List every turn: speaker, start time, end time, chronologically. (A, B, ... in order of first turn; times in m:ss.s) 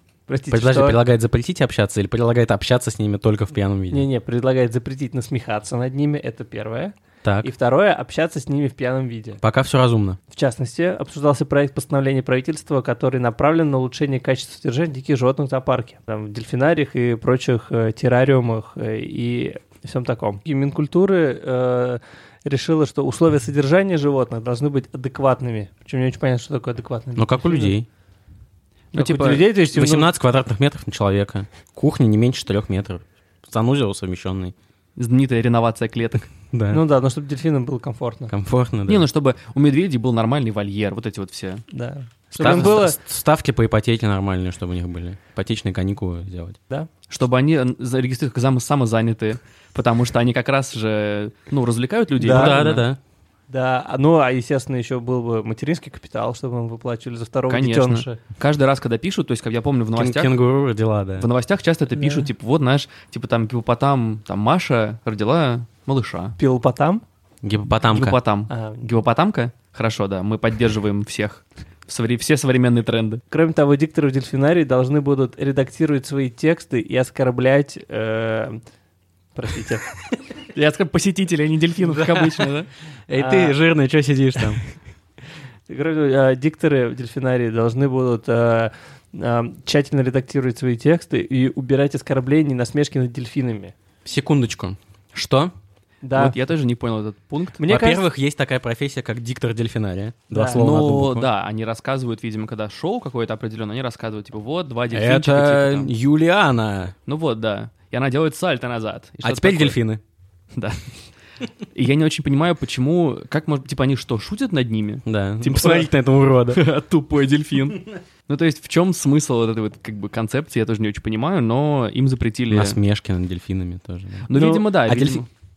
0:00.3-0:01.0 A
0:00.5-0:04.1 B
0:03.9-0:09.4 A
0:07.2-0:07.5 B
0:09.4-0:10.2 B
0:10.3-0:27.8 A
0:27.2-0:27.9 B
0:28.9-0:29.5 C
0:28.9-0:30.1 A
0:29.6-0:34.5 B
0:35.0-0:36.3 C
0:36.4-0:36.8 B
0:36.7-0:38.3 A
0:38.3-0:39.0 B
0:38.9-0:41.6 C
0:41.7-0:43.0 A
0:42.3-0:46.6 B
0:42.4-0:42.8 C
0:47.1-0:52.8 C
0:52.2-0:53.0 B
0:53.5-0:58.2 A
0:57.5-1:00.4 C
1:00.0-1:01.3 B
1:01.2-1:06.3 C
1:02.0-1:02.3 A
1:06.4-1:07.0 A
1:07.4-1:08.2 B
1:07.9-1:13.2 C
1:08.5-1:08.9 A
1:13.3-1:18.6 A
1:19.3-1:19.9 A
1:20.5-1:22.7 C
1:23.1-1:24.6 B
1:23.1-1:23.6 A
1:25.7-1:33.7 A
1:34.0-1:35.5 B
1:36.0-1:36.3 A
1:36.1-1:37.6 C
1:37.6-1:38.0 A
1:37.6-1:41.3 B
1:40.3-1:40.6 A
1:40.5-1:45.9 C
1:44.9-1:46.9 B
1:47.1-1:49.8 C
1:49.2-1:50.0 B
1:50.5-1:50.8 C
1:51.7-1:55.9 C
1:55.0-1:56.6 B
1:56.5-2:02.8 C
2:02.5-2:05.2 B
2:04.3-2:05.3 C
2:04.3-2:04.7 A